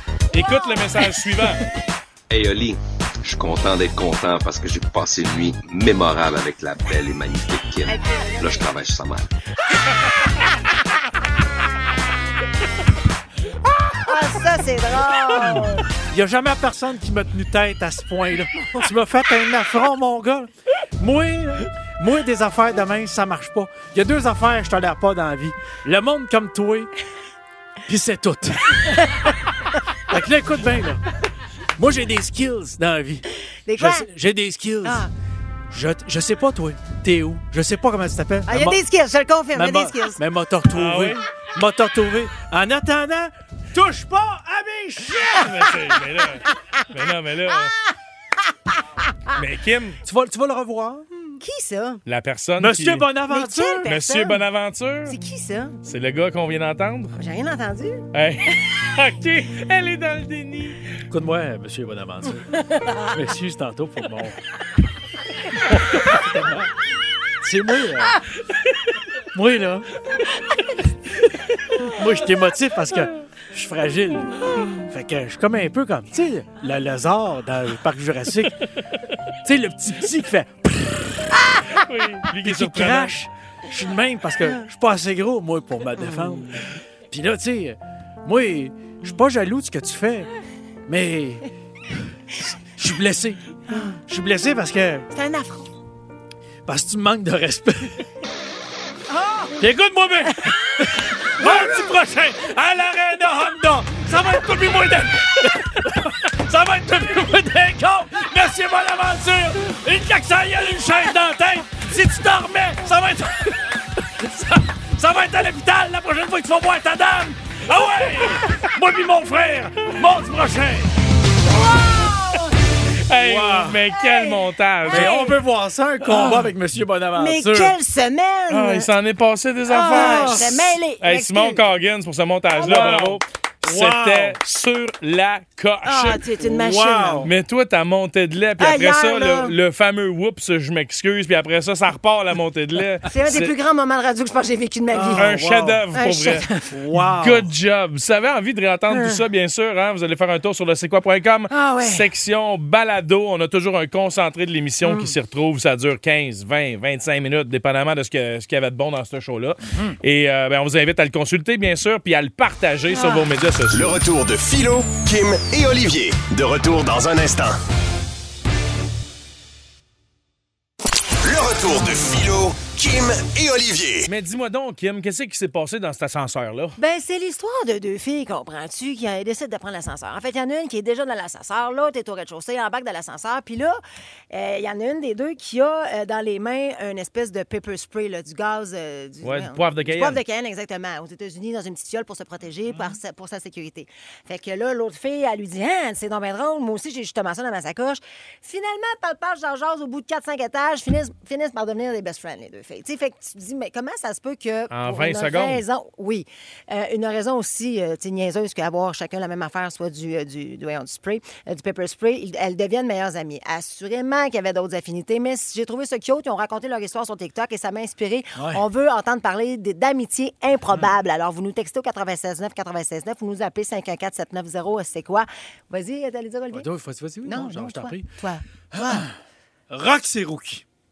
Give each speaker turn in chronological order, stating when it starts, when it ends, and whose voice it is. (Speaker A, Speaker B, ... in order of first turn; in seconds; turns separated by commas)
Speaker A: 0.3-1.6, Speaker B: 2.3-9.3, Speaker C: 7.9-8.6, Speaker C: 13.9-15.8, Speaker D: 15.4-26.9, Speaker D: 27.9-29.0, Speaker C: 28.9-29.2, Speaker D: 30.1-31.0, Speaker D: 31.8-33.2, Speaker C: 33.7-34.1, Speaker D: 33.8-35.1, Speaker C: 34.8-35.1, Speaker D: 35.7-38.8, Speaker C: 38.5-40.2, Speaker D: 39.5-45.5, Speaker A: 40.7-41.2, Speaker A: 45.3-47.7, Speaker A: 49.3-50.0, Speaker D: 50.0-51.1, Speaker C: 51.3-52.0, Speaker A: 52.0-53.1, Speaker D: 52.6-53.9, Speaker C: 53.3-54.4, Speaker A: 53.9-55.2, Speaker C: 55.1-55.8, Speaker A: 55.8-57.1, Speaker C: 57.1-58.0, Speaker A: 58.1-60.9, Speaker D: 61.1-64.4, Speaker C: 62.7-63.1, Speaker D: 65.6-66.7, Speaker D: 67.4-68.2, Speaker D: 69.3-69.9, Speaker D: 71.8-78.5, Speaker D: 79.4-81.4, Speaker A: 81.8-83.2, Speaker D: 82.4-90.3, Speaker D: 90.9-91.5, Speaker D: 92.3-95.1, Speaker C: 93.7-94.0, Speaker C: 95.1-95.7, Speaker D: 96.7-98.0, Speaker D: 99.5-120.9, Speaker C: 121.5-122.5, Speaker A: 123.1-125.3, Speaker D: 123.1-123.8, Speaker C: 123.9-125.4, Speaker D: 124.8-127.8, Speaker C: 127.2-128.9, Speaker A: 128.5-136.2, Speaker C: 129.7-131.6, Speaker D: 129.8-130.7, Speaker D: 132.6-134.4, Speaker C: 132.6-133.0, Speaker C: 135.8-137.3, Speaker D: 136.4-137.3, Speaker A: 137.2-143.5, Speaker C: 138.6-139.5, Speaker C: 143.1-145.4, Speaker D: 144.9-145.8, Speaker A: 145.2-164.0, Speaker C: 145.9-146.7, Speaker D: 146.7-147.5, Speaker C: 148.9-149.2, Speaker C: 151.5-152.1, Speaker C: 154.8-155.1, Speaker C: 162.9-163.2, Speaker E: 163.7-167.6, Speaker E: 171.2-174.1, Speaker A: 174.1-176.8, Speaker C: 176.8-226.7, Speaker A: 189.2-190.2, Speaker D: 192.7-193.0, Speaker A: 204.7-205.6, Speaker D: 218.3-218.6, Speaker D: 226.5-228.1, Speaker C: 227.2-229.1, Speaker D: 228.7-229.1, Speaker D: 229.7-230.6